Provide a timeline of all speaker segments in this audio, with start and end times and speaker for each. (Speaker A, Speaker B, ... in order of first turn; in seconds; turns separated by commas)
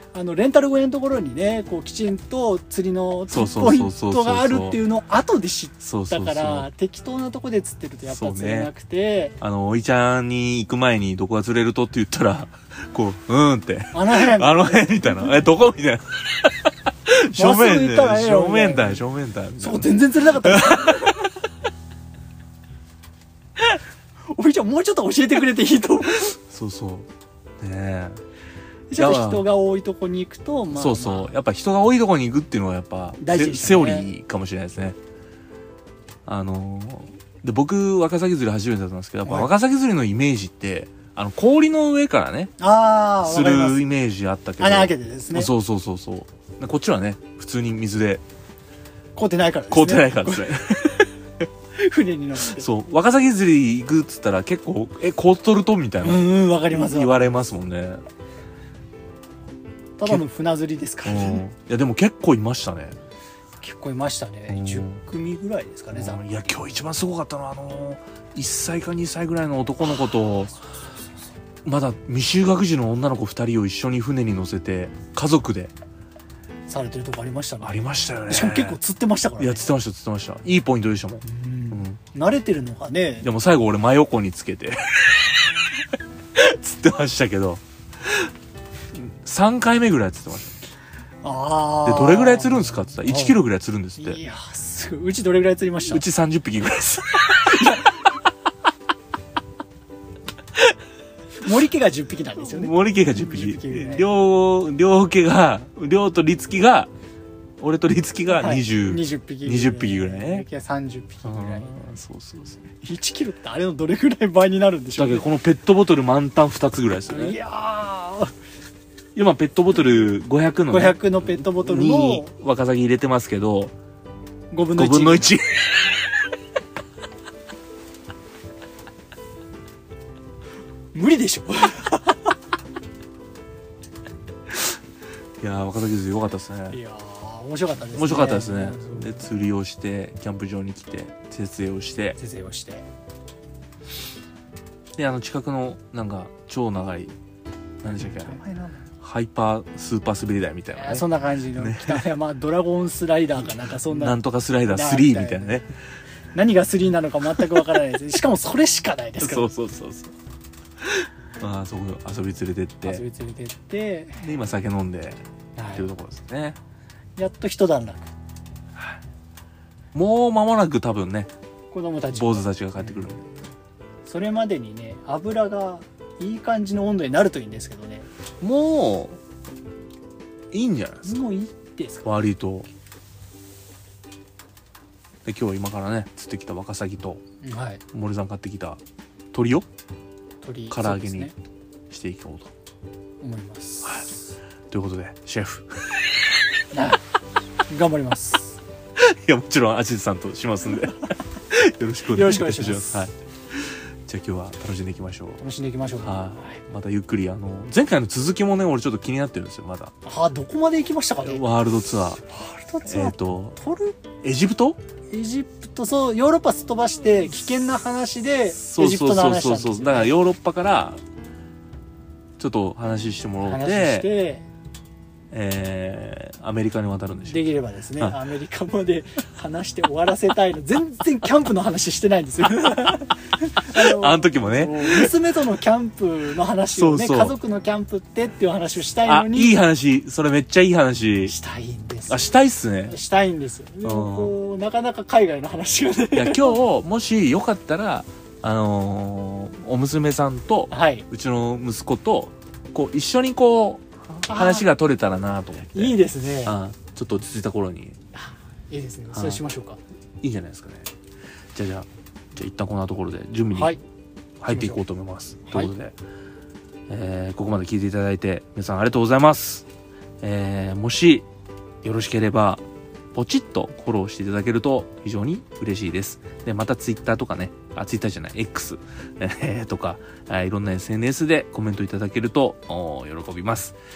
Speaker A: 0.1-9.3, Speaker B: 3.3-4.8, Speaker B: 5.8-6.7, Speaker B: 8.1-8.7, Speaker B: 9.4-21.2, Speaker A: 13.9-15.4, Speaker A: 17.3-19.0, Speaker A: 19.6-21.1, Speaker A: 24.4-26.4, Speaker B: 26.5-27.1, Speaker B: 27.6-28.2, Speaker A: 28.9-31.4, Speaker B: 28.9-29.4, Speaker B: 30.7-35.0, Speaker A: 33.2-34.1, Speaker B: 36.2-42.5, Speaker A: 39.2-39.5, Speaker A: 42.6-43.8, Speaker B: 43.2-48.2, Speaker A: 44.6-45.5, Speaker A: 49.1-50.5, Speaker B: 49.7-51.1, Speaker A: 51.8-52.6, Speaker B: 52.5-58.0, Speaker A: 56.0-57.4, Speaker A: 60.0-61.4, Speaker B: 61.0-63.0, Speaker A: 63.6-66.3, Speaker B: 64.5-65.0, Speaker B: 65.9-70.6, Speaker B: 71.6-75.7, Speaker A: 76.7-79.7, Speaker B: 77.6-78.8, Speaker B: 79.4-82.0, Speaker A: 81.2-83.3, Speaker B: 83.2-85.4, Speaker B: 86.3-88.3, Speaker B: 88.9-90.6, Speaker A: 91.2-93.4, Speaker B: 91.8-94.2, Speaker A: 94.0-96.0, Speaker B: 95.9-97.8, Speaker A: 97.4-97.9, Speaker A: 101.4-104.1, Speaker B: 102.4-106.9, Speaker B: 107.6-110.5, Speaker A: 108.3-111.8, Speaker B: 111.2-112.6, Speaker A: 112.8-115.3, Speaker B: 115.0-117.4, Speaker A: 117.1-118.3, Speaker B: 119.1-123.7, Speaker A: 120.7-122.3, Speaker A: 124.5-125.3, Speaker B: 124.8-125.8, Speaker A: 130.9-132.1, Speaker B: 135.4-136.8, Speaker A: 136.7-139.2, Speaker B: 137.9-142.2, Speaker A: 142.2-142.8, Speaker B: 145.0-147.1, Speaker B: 147.8-148.4, Speaker A: 147.9-148.8, Speaker B: 149.0-152.1, Speaker A: 150.7-155.6, Speaker B: 153.9-155.7, Speaker A: 156.3-159.5, Speaker B: 159.2-160.1, Speaker B: 160.8-163.0, Speaker A: 162.8-164.2, Speaker B: 164.2-166.6, Speaker A: 165.6-165.9, Speaker A: 167.2-168.1, Speaker B: 169.9-171.3, Speaker A: 171.7-173.2, Speaker B: 172.1-173.2, Speaker A: 174.1-178.1, Speaker B: 178.4-179.2, Speaker B: 180.5-181.2, Speaker A: 181.0-182.2, Speaker B: 182.0-182.7, Speaker B: 185.2-187.2, Speaker A: 187.4-187.8, Speaker B: 187.9-188.8, Speaker B: 189.3-189.7, Speaker A: 190.4-191.3, Speaker B: 190.7-191.3, Speaker B: 191.9-192.5, Speaker A: 193.2-194.2, Speaker B: 194.7-195.8, Speaker A: 196.7-197.0, Speaker A: 197.7-198.6, Speaker B: 199.0-205.4, Speaker A: 202.1-203.1, Speaker A: 205.4-206.6, Speaker B: 206.0-209.9, Speaker A: 210.1-211.5, Speaker B: 211.2-212.2, Speaker A: 212.2-214.0, Speaker B: 212.9-213.6, Speaker B: 214.2-214.8, Speaker A: 215.1-220.1, Speaker B: 218.5-221.0, Speaker B: 222.4-224.1, Speaker A: 223.4-224.4, Speaker B: 225.3-227.5, Speaker A: 227.2-239.6, Speaker B: 232.6-233.0, Speaker B: 233.7-235.1, Speaker B: 236.7-237.4, Speaker B: 239.1-241.3, Speaker A: 241.2-242.2, Speaker B: 242.1-242.9, Speaker A: 242.9-246.6, Speaker B: 243.8-244.3, Speaker B: 246.1-258.0, Speaker A: 250.7-251.1, Speaker A: 254.2-254.7, Speaker A: 255.7-256.6, Speaker A: 258.1-259.8, Speaker B: 259.1-259.4, Speaker B: 260.2-260.9, Speaker B: 261.5-263.8, Speaker A: 263.6-263.8, Speaker B: 264.4-265.9, Speaker A: 264.5-264.8, Speaker A: 265.5-265.7, Speaker B: 266.9-269.6, Speaker B: 270.2-271.2, Speaker B: 271.8-283.8